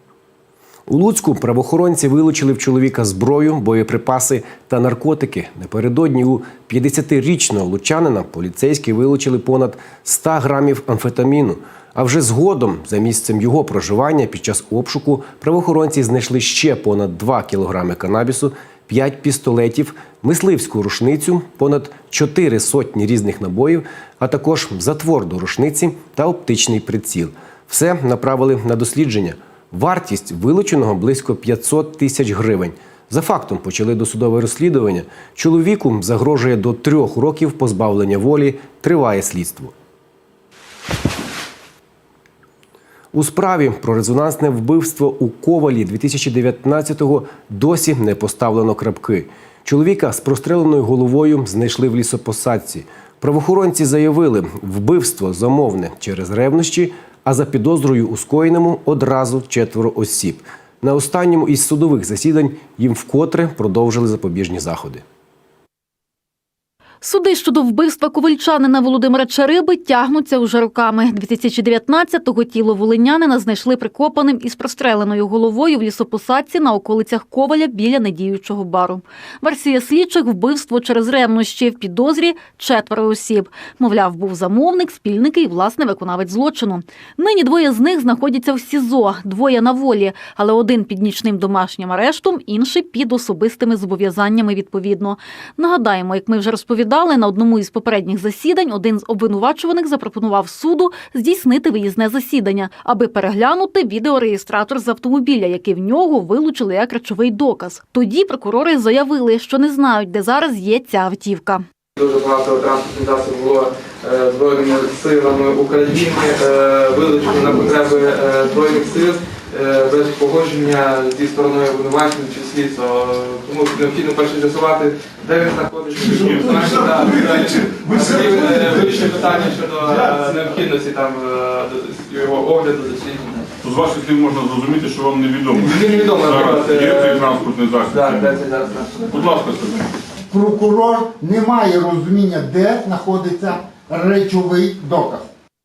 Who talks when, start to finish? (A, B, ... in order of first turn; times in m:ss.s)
0:00.9-0:39.7 A
0:43.1-1:05.0 A
1:07.0-1:51.6 B
1:52.0-2:13.5 C
2:13.6-2:18.2 D
2:15.6-2:19.4 C
2:19.1-2:19.8 D
2:20.3-2:25.3 E